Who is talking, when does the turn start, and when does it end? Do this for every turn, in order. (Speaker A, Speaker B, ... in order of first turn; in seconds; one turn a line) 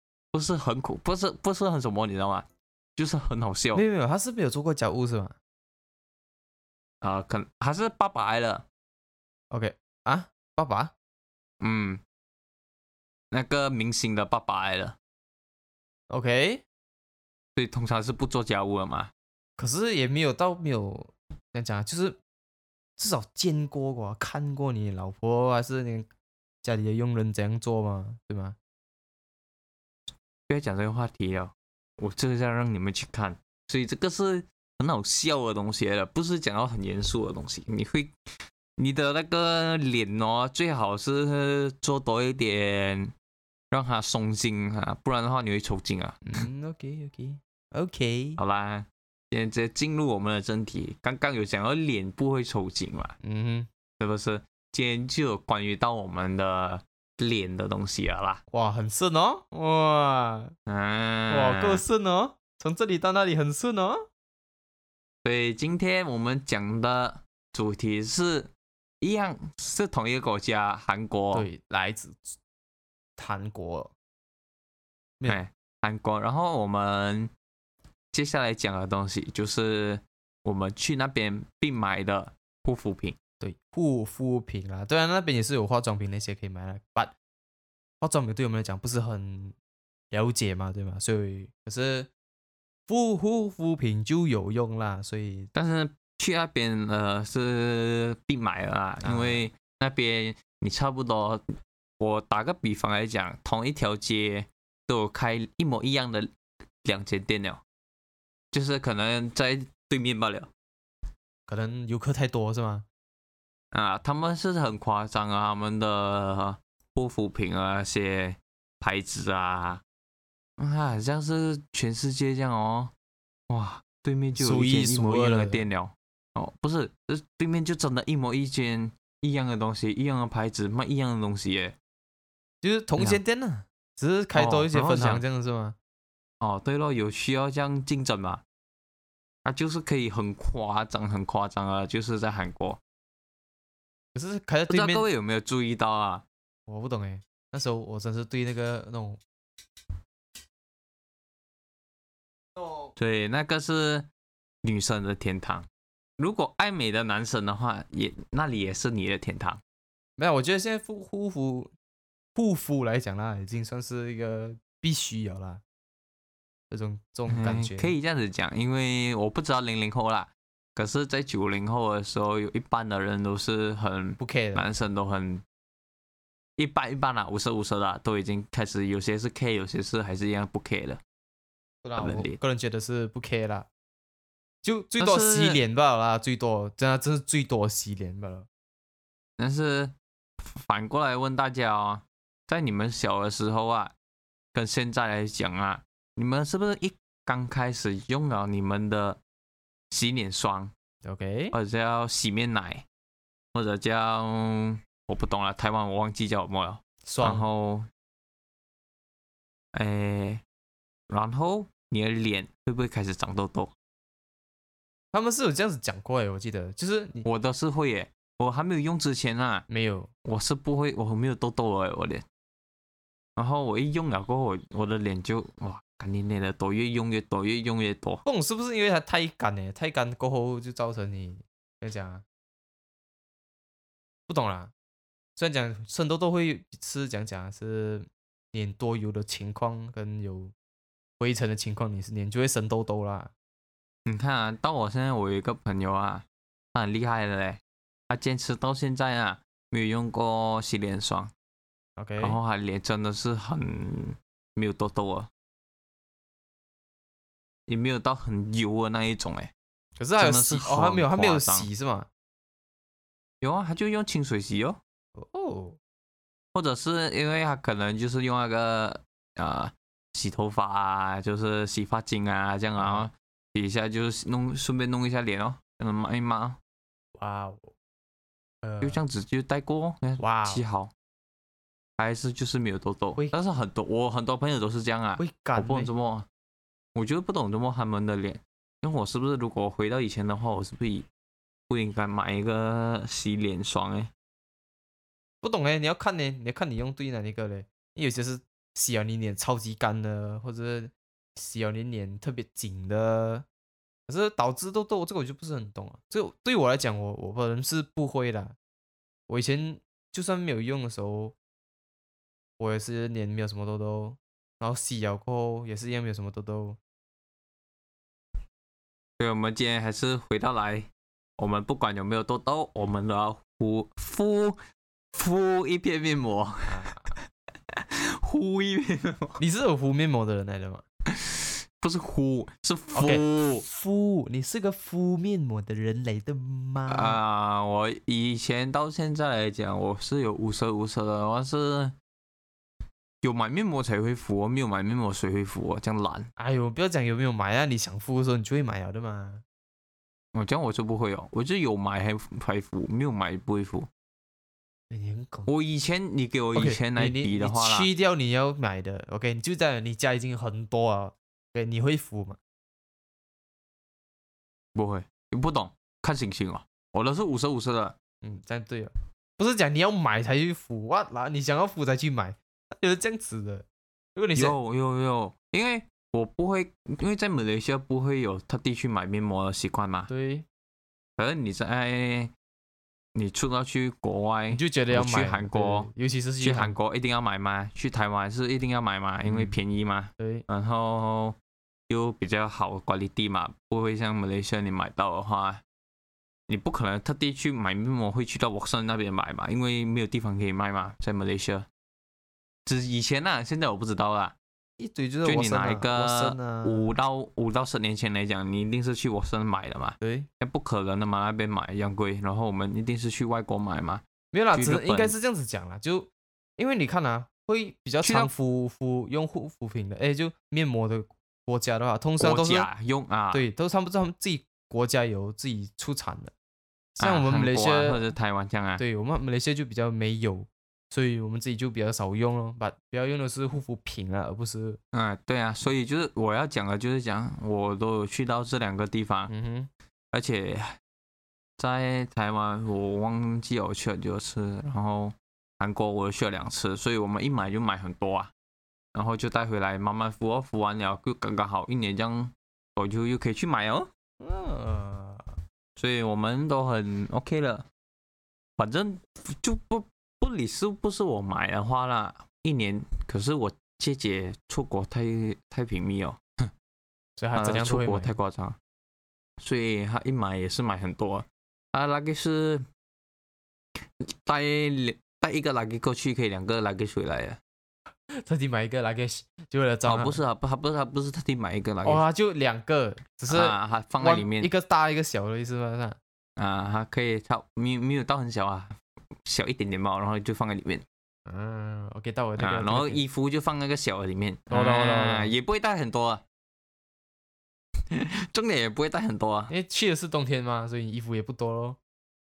Speaker A: 0.3-3.8
Speaker B: 3.7-5.4
Speaker A: 7.0-8.7
Speaker B: 9.5-10.9
Speaker A: 11.6-12.0
Speaker A: 13.3-15.0
Speaker B: 16.1-16.6
Speaker A: 17.6-19.1
Speaker B: 19.6-22.2
Speaker B: 23.0-26.1
Speaker B: 26.6-28.6
Speaker A: 30.5-43.1
Speaker A: 43.7-46.2
Speaker B: 46.3-48.4
Speaker A: 48.4-53.2
Speaker B: 53.2-53.7
Speaker A: 54.0-58.4
Speaker B: 58.5-60.5
Speaker A: 60.7-61.8
Speaker B: 61.3-64.0
Speaker A: 65.2-71.5
Speaker B: 71.3-72.4
Speaker B: 73.2-73.9
Speaker A: 75.3-77.3
Speaker A: 78.1-83.2
Speaker B: 83.4-87.1
Speaker B: 88.0-89.5
Speaker B: 90.1-92.1
Speaker B: 92.9-95.5
Speaker A: 95.5-101.5
Speaker B: 99.0-99.5
Speaker A: 102.0-106.3
Speaker A: 106.8-107.6
Speaker A: 108.5-110.5
Speaker B: 111.5-112.9
Speaker A: 113.7-119.8
Speaker A: 120.6-122.9
Speaker A: 123.5-131.8
Speaker B: 124.3-125.7
Speaker B: 132.6-135.8
Speaker A: 134.3-135.2
Speaker A: 136.4-138.4
Speaker A: 139.4-142.8
Speaker B: 144.2-145.1
Speaker A: 144.7-146.2
Speaker B: 146.7-149.2
Speaker B: 152.6-152.9
Speaker A: 153.0-154.1
Speaker A: 154.6-155.7
Speaker A: 156.2-159.6
Speaker B: 160.2-161.7
Speaker B: 162.3-165.6
Speaker B: 166.7-167.9
Speaker A: 167.3-175.4
Speaker B: 174.2-174.7
Speaker A: 176.6-181.0
Speaker B: 181.8-183.7
Speaker A: 182.0-182.4
Speaker B: 184.6-188.5
Speaker A: 185.0-185.6
Speaker A: 189.4-193.9
Speaker A: 194.5-199.2
Speaker A: 199.9-200.7
Speaker B: 201.0-201.6
Speaker A: 201.5-202.8
Speaker A: 203.5-207.9
Speaker B: 207.0-207.5
Speaker A: 209.7-210.4
Speaker A: 211.1-213.7
Speaker B: 215.1-217.3
Speaker A: 217.2-219.7
Speaker B: 219.7-220.1
Speaker A: 220.2-222.2
Speaker A: 223.4-228.2
Speaker B: 228.2-232.2
Speaker B: 234.3-234.7
Speaker B: 235.4-240.5
Speaker B: 241.2-243.3
Speaker A: 244.1-251.3
Speaker B: 252.0-252.4
Speaker A: 252.2-255.3
Speaker A: 257.7-259.5
Speaker B: 260.0-262.1
Speaker A: 260.2-261.7
Speaker A: 263.4-264.8
Speaker B: 265.1-265.8
Speaker A: 266.5-276.6
Speaker B: 272.8-273.1
Speaker B: 277.1-277.7
Speaker B: 278.6-279.0
Speaker A: 278.8-280.9
Speaker B: 280.2-280.6
Speaker A: 282.0-286.3
Speaker B: 285.2-285.9
Speaker A: 286.9-291.1
Speaker A: 291.7-294.1
Speaker B: 295.4-303.5
Speaker B: 304.1-308.6
Speaker B: 309.3-311.4
Speaker B: 312.6-316.8
Speaker A: 319.2-324.6
Speaker A: 325.1-329.4
Speaker B: 326.6-327.2
Speaker B: 329.4-330.8
Speaker A: 331.1-333.6
Speaker B: 332.9-337.2
Speaker A: 336.9-341.9
Speaker A: 343.2-346.3
Speaker B: 346.4-349.4
Speaker A: 350.3-353.9
Speaker B: 354.9-355.5
Speaker A: 355.5-357.9
Speaker B: 356.5-362.4
Speaker A: 364.8-368.0
Speaker B: 368.2-374.6
Speaker A: 374.4-380.1
Speaker B: 380.1-380.5
Speaker A: 381.2-382.3
Speaker A: 383.1-385.9
Speaker B: 384.5-386.8
Speaker A: 386.4-391.4
Speaker B: 389.2-389.6
Speaker B: 390.2-390.4
Speaker A: 391.9-395.6
Speaker A: 396.5-401.7
Speaker A: 402.7-404.4
Speaker B: 404.8-406.9
Speaker A: 405.2-415.1
Speaker B: 410.0-410.3
Speaker B: 414.3-422.7
Speaker A: 418.0-418.3
Speaker A: 422.2-423.5
Speaker B: 423.3-426.3
Speaker B: 427.0-428.1
Speaker A: 427.0-428.8
Speaker B: 428.8-434.8
Speaker A: 434.9-439.3
Speaker B: 439.3-439.7
Speaker A: 440.1-440.8
Speaker A: 441.6-448.3
Speaker A: 448.9-453.9
Speaker B: 454.2-455.3
Speaker A: 455.8-457.6
Speaker A: 458.6-466.5
Speaker B: 467.2-468.1
Speaker A: 467.4-468.6
Speaker A: 469.4-472.6
Speaker A: 474.0-477.4
Speaker B: 478.1-480.2
Speaker A: 479.9-482.0
Speaker B: 481.8-486.0
Speaker A: 483.3-484.5
Speaker A: 486.4-490.8
Speaker B: 491.3-493.0
Speaker A: 492.4-496.2
Speaker B: 494.5-495.3
Speaker A: 497.9-499.5
Speaker B: 499.5-501.8